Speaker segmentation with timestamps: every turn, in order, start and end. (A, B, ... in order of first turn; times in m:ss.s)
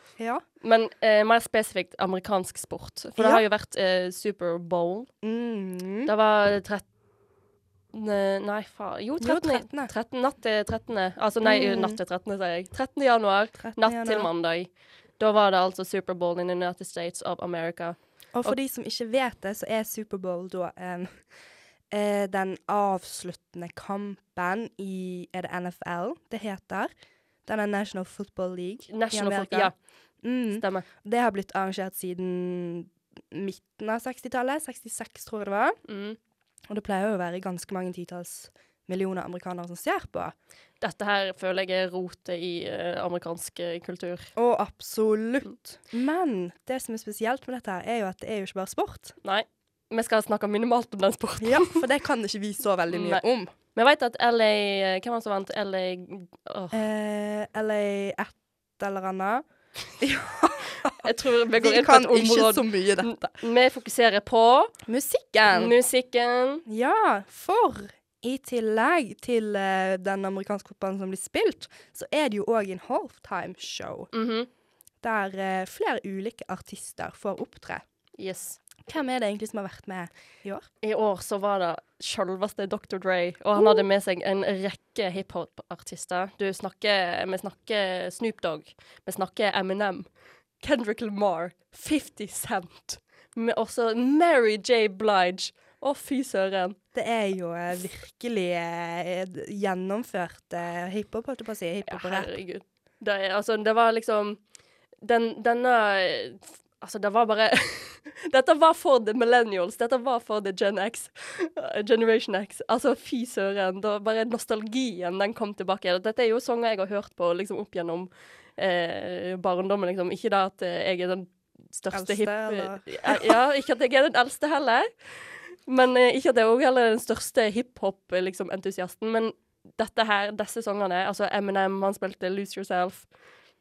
0:00.2-0:00.4 A
0:00.6-0:05.1 B
0:03.2-0:03.4 A
0:05.2-0:06.1 A
0:06.0-0:06.8 B
0:07.9-0:18.6 B
0:09.2-0:09.9 A
0:11.4-0:12.0 A
0:13.6-0:14.3 A
0:18.3-0:21.2 A
0:21.9-0:26.9 A
0:27.4-0:35.8 A
0:28.9-0:29.7 B
0:30.6-0:30.8 B
0:35.9-0:36.2 B
0:36.7-0:40.3 A
0:40.8-0:44.3 B
0:44.4-0:49.1 A
0:49.2-0:51.8 B
0:51.4-0:53.5 A
0:52.9-0:53.2 B
0:53.7-0:56.8 B
0:56.7-0:59.4 A
1:00.0-1:03.4 A
1:01.0-1:04.8 B
1:04.8-1:05.7 A
1:05.5-1:06.6 B
1:06.6-1:14.1 A
1:14.1-1:14.5 B
1:15.0-1:17.8 A
1:18.2-1:18.6 B
1:18.8-1:20.6 A
1:20.8-1:30.1 B
1:23.6-1:23.8 A
1:30.6-1:36.8 B
1:36.9-1:42.3 A
1:41.9-1:44.4 B
1:45.0-2:04.9 B
2:01.9-2:03.4 A
2:05.7-2:13.1 B